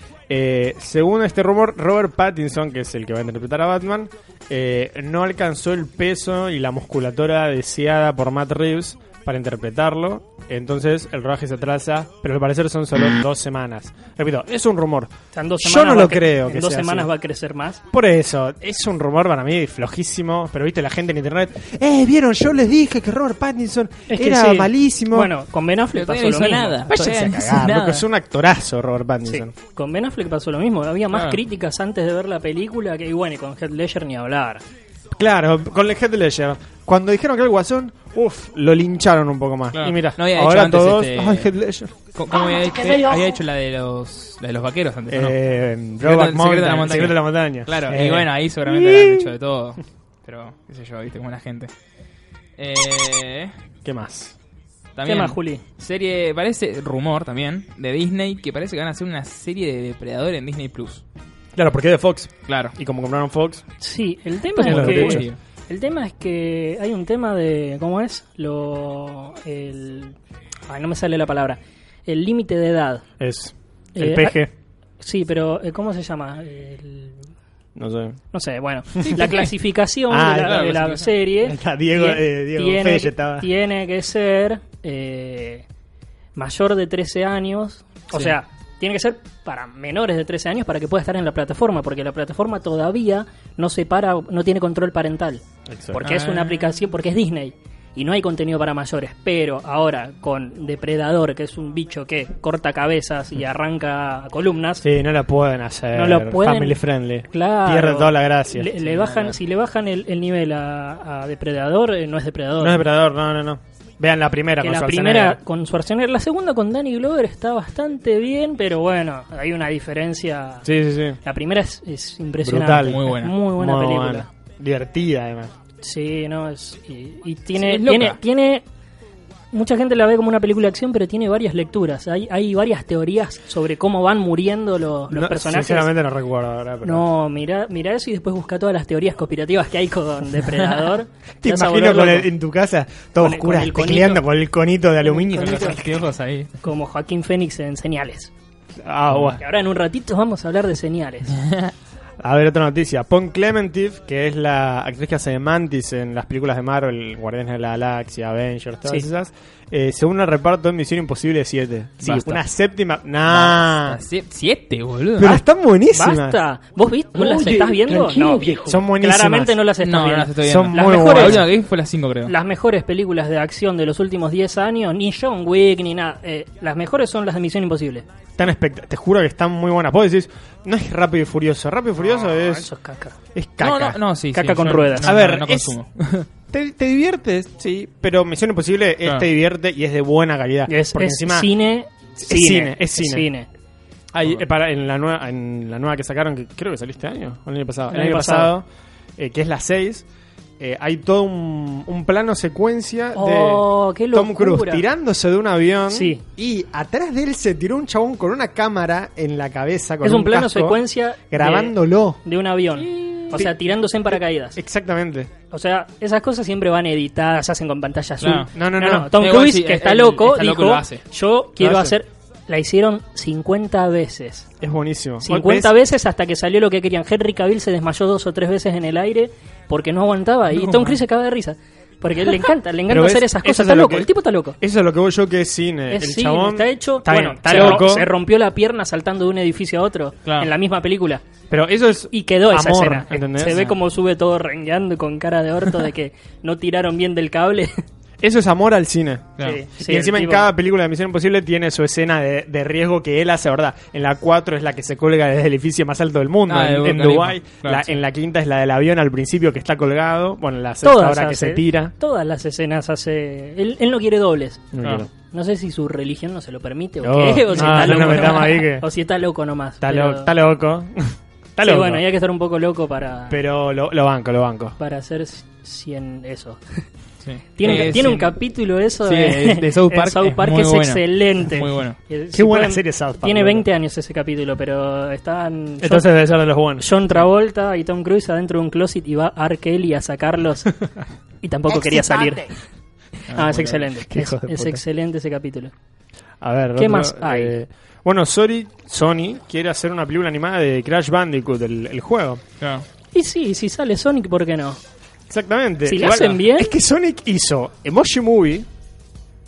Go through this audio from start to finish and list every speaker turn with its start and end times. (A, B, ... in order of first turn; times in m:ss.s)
0:00.3-0:17.1 A
0:15.3-0:17.8 B
0:17.9-0:25.3 A
0:24.1-0:26.9 B
0:25.9-0:28.0 C
0:26.9-0:29.5 A
0:29.2-0:34.6 B
0:31.1-0:31.4 C
0:35.1-0:41.9 A
0:39.7-0:41.5 C
0:42.1-0:45.4 C
0:45.1-0:49.3 A
0:46.0-0:51.7 C
0:52.6-0:53.5 C
0:53.8-0:54.4 A
0:55.0-1:01.0 C
0:55.0-0:55.6 B
1:01.6-1:03.6 A
1:02.5-1:02.7 C
1:03.8-1:10.2 B
1:04.6-1:05.3 A
1:04.6-1:05.4 C
1:10.7-1:13.0 B
1:13.2-1:14.5 A
1:14.0-1:14.4 B
1:15.0-1:17.2 B
1:17.8-1:18.2 A
1:18.3-1:25.6 B
1:19.0-1:19.5 C
1:20.1-1:20.6 A
1:20.4-1:21.1 C
1:21.4-1:23.5 A
1:26.4-1:44.8 B
1:35.7-1:36.0 A
1:36.0-1:36.7 C
1:44.8-1:48.7 A
1:45.9-1:52.8 B
1:48.8-1:49.4 C
1:52.6-1:55.4 A
1:54.6-2:00.7 B
2:00.6-2:01.2 A
2:01.2-2:04.3 B
2:02.4-2:05.5 A
2:02.8-2:03.4 C
2:05.8-2:08.6 B
2:07.6-2:08.2 C
2:09.5-2:15.9 B
2:15.1-2:17.0 A
2:16.8-2:22.3 B
2:21.4-2:25.9 A
2:23.2-2:24.2 B
2:25.0-2:25.8 B
2:25.4-2:26.5 C
2:26.6-2:28.3 B
2:28.8-2:29.4 A
2:29.1-2:29.4 C
2:29.4-2:31.4 B
2:31.4-2:31.7 C
2:32.2-2:44.0 A
2:42.0-2:42.4 C
2:43.3-2:45.4 C
2:45.2-2:46.4 A
2:45.9-2:51.5 B
2:48.6-2:49.6 A
2:49.8-2:52.3 C
2:50.4-2:51.5 A
2:52.2-2:58.0 B
2:58.4-3:02.7 A
3:02.3-3:03.2 B
3:03.3-3:04.0 A
3:03.6-3:06.3 C
3:04.3-3:05.1 B
3:05.0-3:05.8 A
3:06.5-3:11.5 A
3:10.7-3:13.5 B
3:12.2-3:13.3 A
3:14.1-3:18.6 A
3:17.9-3:18.5 B
3:19.2-3:20.0 A
3:20.6-3:32.2 A
3:23.1-3:24.8 B
3:25.9-3:26.2 B
3:30.0-3:34.6 B
3:32.8-3:33.2 C
3:34.1-3:35.3 A
3:35.5-3:44.5 B
3:38.2-3:38.5 C
3:38.5-3:39.2 A
3:39.1-3:41.0 C
3:41.6-3:42.0 A
3:44.6-3:45.7 A
3:45.2-3:54.6 B
3:50.6-3:51.0 C
3:52.9-3:54.1 A
3:54.6-3:58.1 A
3:55.9-4:01.2 B
3:57.5-3:57.8 C
4:00.2-4:00.5 C
4:01.5-4:03.6 A
4:02.1-4:07.8 B
4:08.2-4:21.9 A
4:09.4-4:10.5 B
4:16.5-4:17.9 C
4:20.8-4:24.7 B
4:24.7-4:25.1 A
4:24.8-4:25.0 C
4:25.2-4:30.3 B
4:27.0-4:28.8 A
4:27.5-4:28.4 C
4:29.8-4:32.0 A
4:31.6-4:33.4 B
4:33.3-4:34.8 A
4:34.8-4:36.8 B
4:37.2-4:38.3 C
4:37.6-4:46.1 B
4:37.6-4:38.0 A
4:39.0-4:42.0 C
4:42.3-4:43.7 A
4:45.8-4:46.8 A
4:46.8-4:50.8 B
4:51.4-4:52.6 B
4:53.2-4:55.7 B
4:53.3-4:53.8 C
4:53.9-4:54.8 A
4:56.4-5:02.4 A
4:56.8-4:57.5 B
5:02.6-5:02.8 C
5:03.1-5:04.8 B
5:05.3-5:08.7 A
5:05.8-5:06.7 B
5:06.0-5:06.3 C